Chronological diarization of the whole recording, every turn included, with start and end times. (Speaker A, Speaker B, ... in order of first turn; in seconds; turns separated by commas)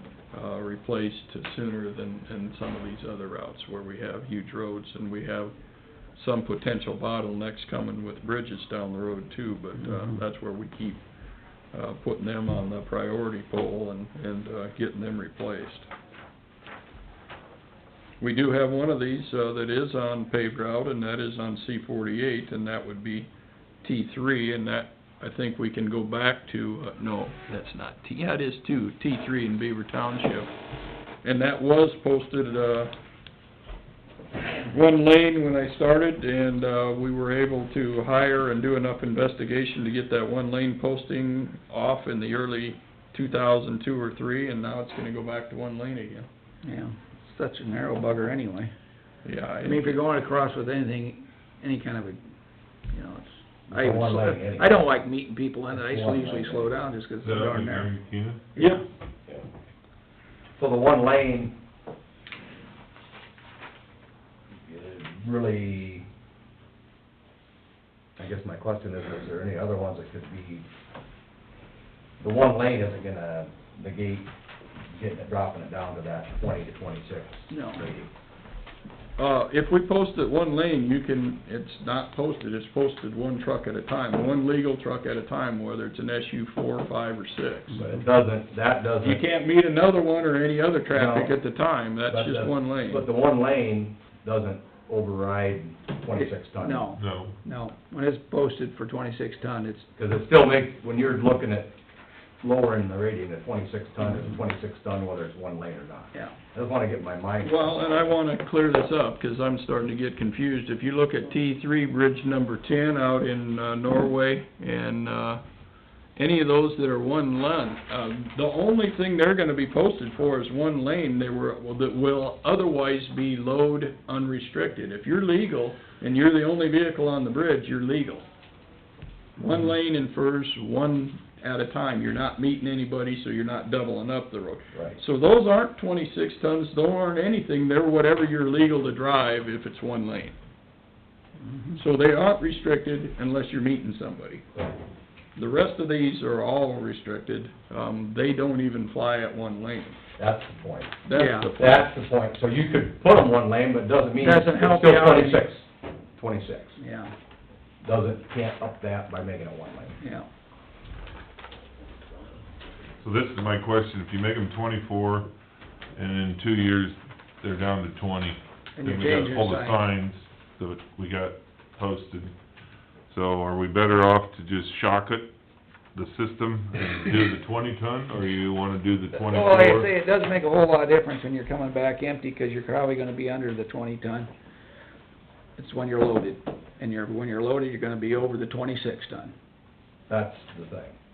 Speaker A: 0.3-15.9, Speaker A: 18.2-23.3, Speaker A: 23.8-30.5, Speaker A: 31.2-32.9, Speaker A: 34.6-46.3, Speaker B: 46.6-48.7, Speaker A: 49.2-49.8, Speaker B: 49.6-52.2, Speaker B: 52.9-57.9, Speaker C: 53.7-54.8, Speaker C: 55.7-56.7, Speaker D: 57.2-58.5, Speaker B: 58.5-58.8, Speaker A: 58.6-58.8, Speaker C: 60.6-61.5, Speaker C: 64.7-66.0, Speaker C: 68.2-70.6, Speaker C: 72.2-74.3, Speaker C: 74.9-78.1, Speaker B: 77.5-77.8, Speaker A: 79.2-87.8, Speaker C: 87.7-89.2, Speaker A: 89.0-93.0, Speaker C: 90.9-91.3, Speaker C: 92.1-96.9, Speaker B: 96.1-99.9, Speaker D: 97.0-97.3, Speaker C: 99.9-101.7, Speaker C: 102.4-108.1, Speaker A: 107.4-115.4, Speaker A: 116.2-128.3, Speaker A: 129.4-140.3, Speaker C: 134.7-135.0, Speaker B: 141.4-141.8, Speaker A: 141.8-144.4, Speaker A: 145.3-150.0, Speaker C: 150.2-156.8, Speaker A: 151.0-151.9, Speaker B: 151.1-151.5, Speaker B: 154.2-155.4, Speaker B: 156.8-157.1, Speaker C: 157.8-159.9, Speaker B: 160.0-160.3, Speaker D: 163.0-165.3, Speaker D: 165.9-172.4, Speaker B: 168.8-169.8, Speaker D: 173.0-175.3, Speaker D: 175.9-179.9, Speaker B: 179.1-184.3, Speaker B: 185.6-189.3, Speaker C: 190.1-191.0